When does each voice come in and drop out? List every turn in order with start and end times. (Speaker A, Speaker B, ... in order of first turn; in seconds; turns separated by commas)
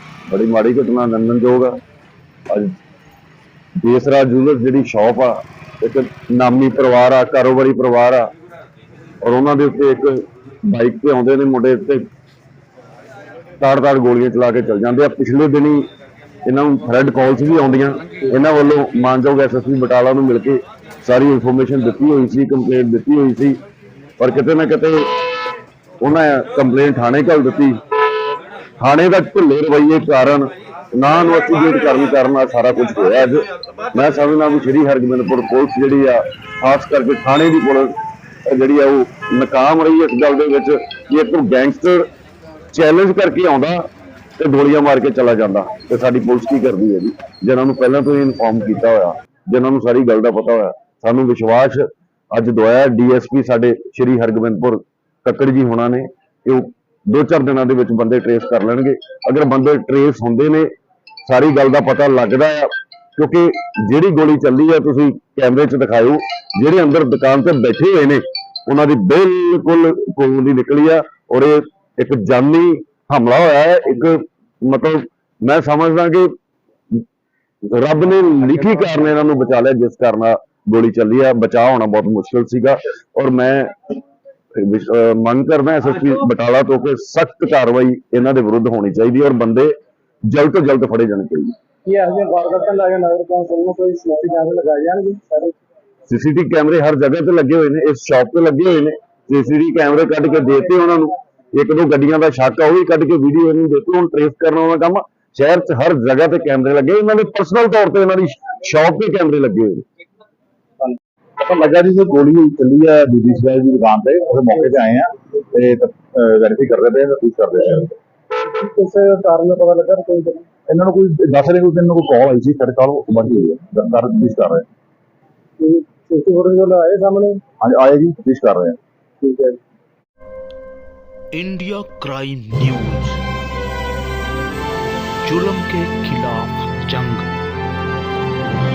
Speaker A: 0.3-1.8, Speaker A: 2.5-2.8, Speaker A: 3.8-8.3, Speaker A: 9.2-12.1, Speaker A: 13.6-15.9, Speaker A: 16.4-23.6, Speaker A: 24.2-25.1, Speaker A: 26.0-27.8, Speaker A: 28.8-33.4, Speaker A: 33.9-37.9, Speaker A: 38.5-42.1, Speaker A: 42.7-43.9, Speaker A: 44.4-60.7, Speaker A: 61.3-76.3, Speaker A: 77.7-83.7, Speaker A: 84.6-89.7, Speaker A: 90.3-91.6, Speaker B: 91.8-95.5, Speaker A: 96.1-109.8, Speaker C: 111.4-118.0, Speaker B: 118.4-120.5, Speaker C: 120.7-124.7, Speaker B: 125.6-127.4, Speaker C: 127.6-128.8, Speaker B: 129.2-129.6, Speaker D: 131.3-133.2, Speaker D: 135.2-137.3